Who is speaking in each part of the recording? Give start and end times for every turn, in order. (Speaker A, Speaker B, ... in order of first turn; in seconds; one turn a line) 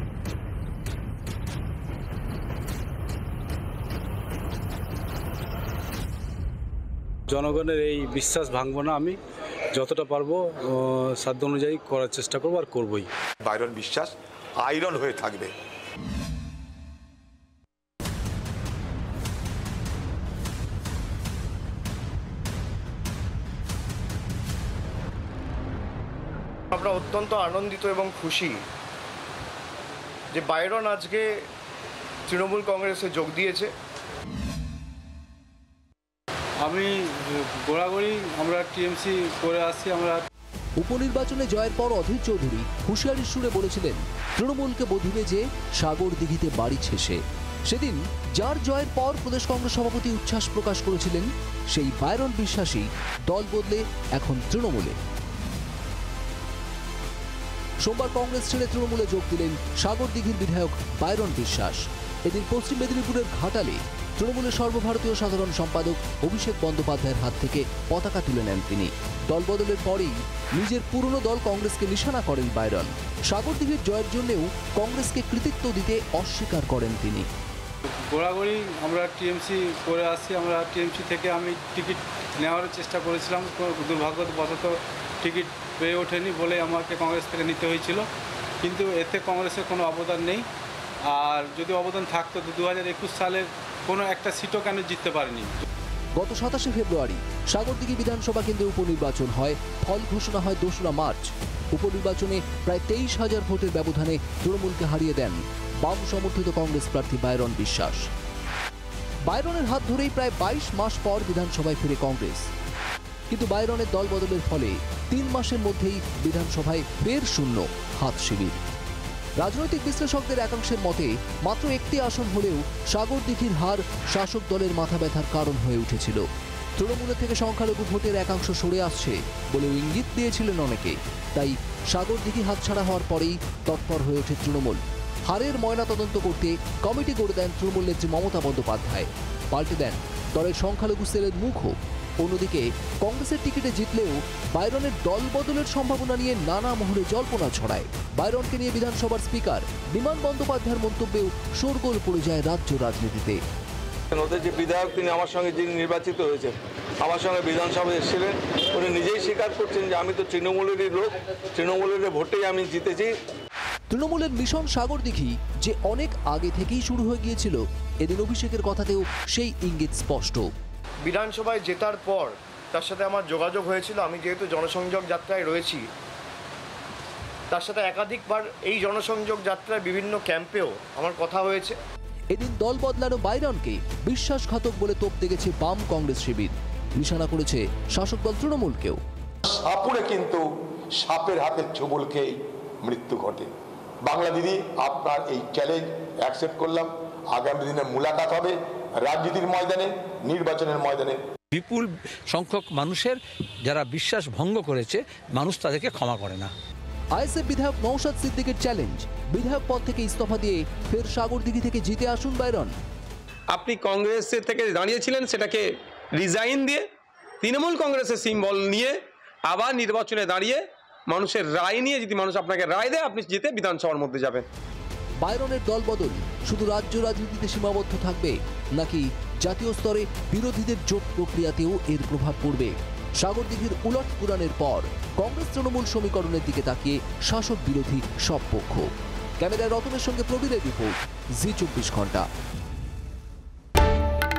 Speaker A: 7.3-9.2
Speaker A: 9.8-13.1
Speaker B: 13.4-15.5
Speaker C: 26.7-28.6
Speaker C: 30.3-31.3
Speaker C: 32.3-33.7
Speaker A: 36.6-40.3
Speaker D: 40.8-55.0
Speaker D: 57.8-77.3
Speaker A: 78.1-88.1
Speaker A: 88.6-90.5
Speaker A: 91.1-95.6
Speaker D: 96.2-108.1
Speaker D: 109.3-112.5
Speaker D: 113.3-118.6
Speaker D: 119.4-126.2
Speaker D: 126.8-153.4
Speaker E: 154.1-163.1
Speaker D: 163.9-170.5
Speaker C: 171.0-175.8
Speaker C: 177.5-181.8
Speaker D: 182.3-189.0
Speaker B: 189.5-190.4
Speaker B: 191.0-193.5
Speaker B: 194.0-201.2
Speaker F: 201.5-206.5
Speaker D: 207.2-212.8
Speaker G: 213.5-216.9
Speaker G: 217.4-224.5
Speaker D: 225.2-242.3